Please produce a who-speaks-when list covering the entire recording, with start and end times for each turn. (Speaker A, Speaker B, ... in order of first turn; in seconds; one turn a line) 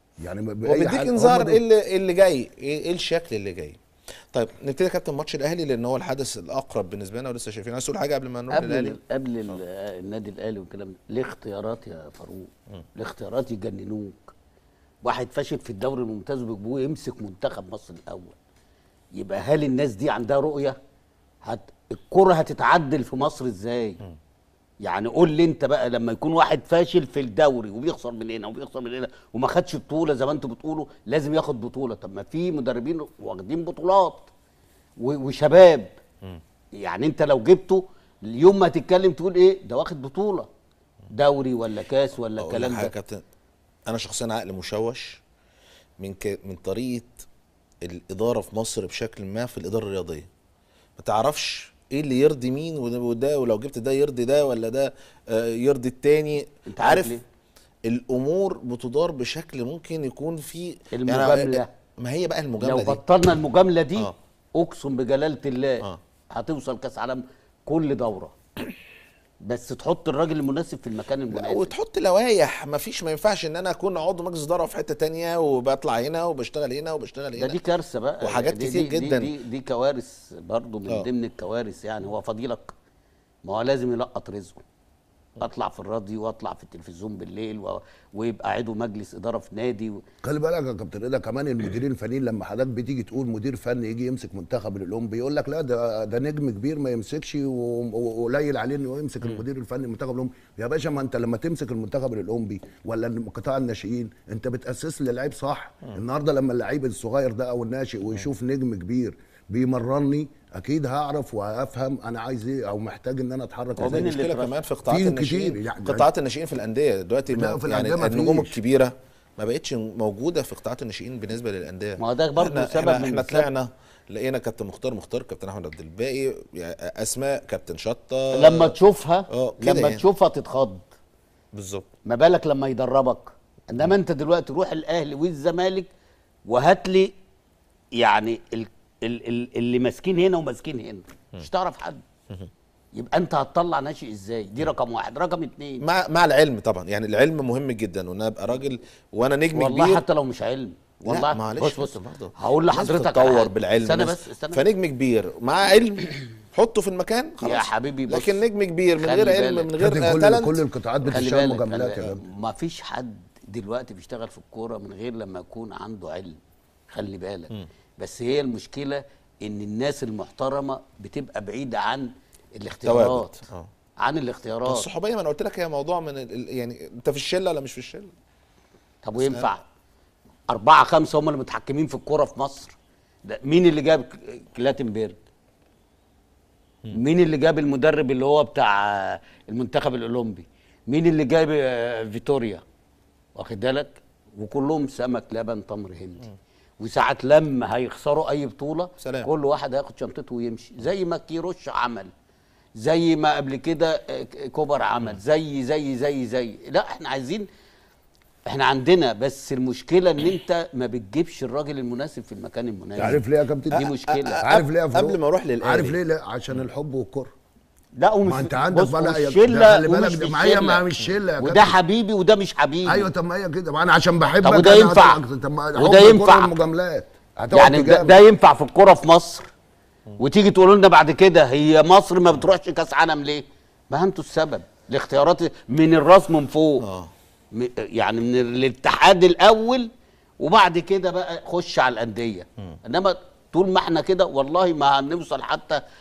Speaker A: 0.2-1.6
Speaker B: 0.7-3.8
Speaker B: 4.3-9.6
Speaker C: 8.5-14.3
Speaker C: 15.0-18.4
Speaker C: 19.1-20.8
Speaker C: 21.4-24.0
Speaker C: 24.8-34.3
Speaker C: 35.0-35.9
Speaker C: 36.8-40.5
Speaker C: 41.1-42.9
Speaker B: 42.4-43.2
Speaker B: 43.9-45.2
Speaker B: 46.0-47.2
Speaker B: 47.8-50.3
Speaker B: 51.0-57.2
Speaker C: 56.7-57.2
Speaker B: 57.9-63.0
Speaker C: 60.9-61.7
Speaker C: 62.6-68.3
Speaker C: 69.4-71.7
Speaker B: 71.3-77.6
Speaker C: 77.3-82.7
Speaker B: 78.2-79.3
Speaker C: 83.4-84.6
Speaker C: 85.4-90.0
Speaker A: 90.2-114.1
Speaker C: 113.8-114.5
Speaker B: 113.8-128.8
Speaker A: 114.9-116.1
Speaker A: 117.3-118.6
Speaker C: 122.0-123.5
Speaker C: 128.3-130.8
Speaker B: 129.3-130.0
Speaker B: 131.5-131.9
Speaker C: 132.0-135.9
Speaker C: 136.5-137.1
Speaker C: 138.0-142.0
Speaker C: 142.9-145.8
Speaker B: 145.8-150.0
Speaker C: 149.5-154.6
Speaker B: 151.1-161.2
Speaker C: 157.4-158.4
Speaker C: 159.0-159.7
Speaker A: 159.8-162.2
Speaker C: 161.1-166.4
Speaker C: 166.9-173.4
Speaker B: 172.8-173.7
Speaker C: 174.0-174.9
Speaker B: 174.7-178.1
Speaker C: 179.0-179.6
Speaker B: 179.2-179.5
Speaker C: 180.5-182.7
Speaker C: 183.2-185.2
Speaker C: 186.9-192.6
Speaker C: 193.3-196.2
Speaker C: 196.8-202.1
Speaker B: 199.0-199.3
Speaker C: 202.8-207.5
Speaker C: 208.5-214.4
Speaker A: 213.0-213.8
Speaker B: 213.7-215.9
Speaker A: 214.4-217.3
Speaker C: 217.9-220.8
Speaker A: 218.2-221.8
Speaker C: 221.4-223.1
Speaker A: 222.8-228.2
Speaker C: 224.4-225.2
Speaker C: 225.8-226.5
Speaker C: 227.5-229.5
Speaker C: 230.2-236.8
Speaker B: 236.8-237.1
Speaker C: 237.5-239.9
Speaker C: 240.4-245.8